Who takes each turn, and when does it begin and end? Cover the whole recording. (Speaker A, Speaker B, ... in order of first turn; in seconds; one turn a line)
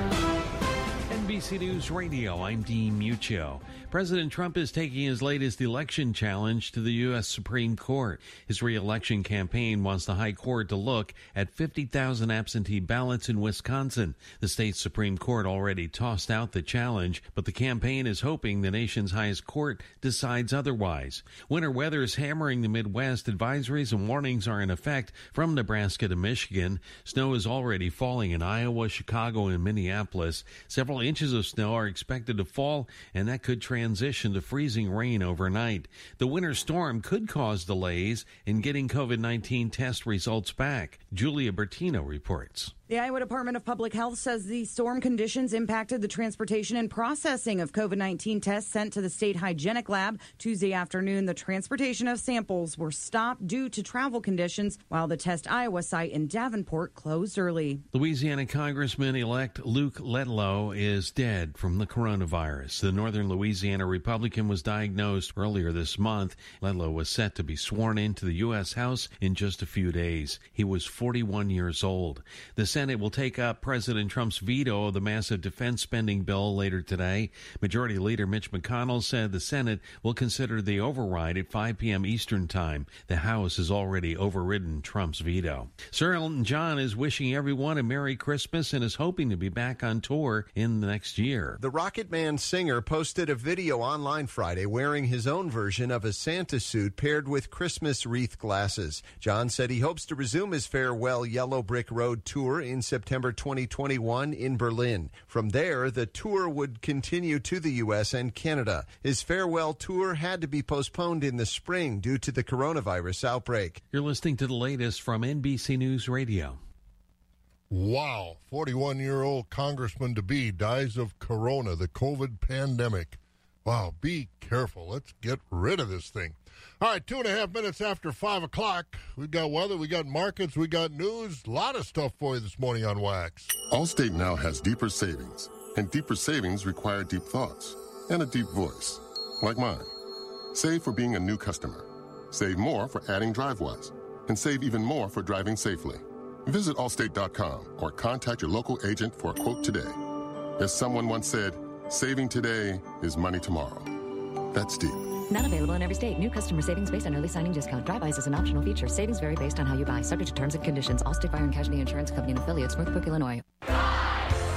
Speaker A: 1.1-42.7
Speaker B: 42.9-57.8
Speaker A: 57.9-91.6
Speaker C: 91.6-113.8
Speaker A: 113.9-116.6
Speaker D: 117.7-133.5
Speaker E: 133.7-139.9
Speaker E: 140.5-150.0
Speaker E: 150.6-154.0
Speaker E: 154.5-155.2
Speaker F: 155.3-163.4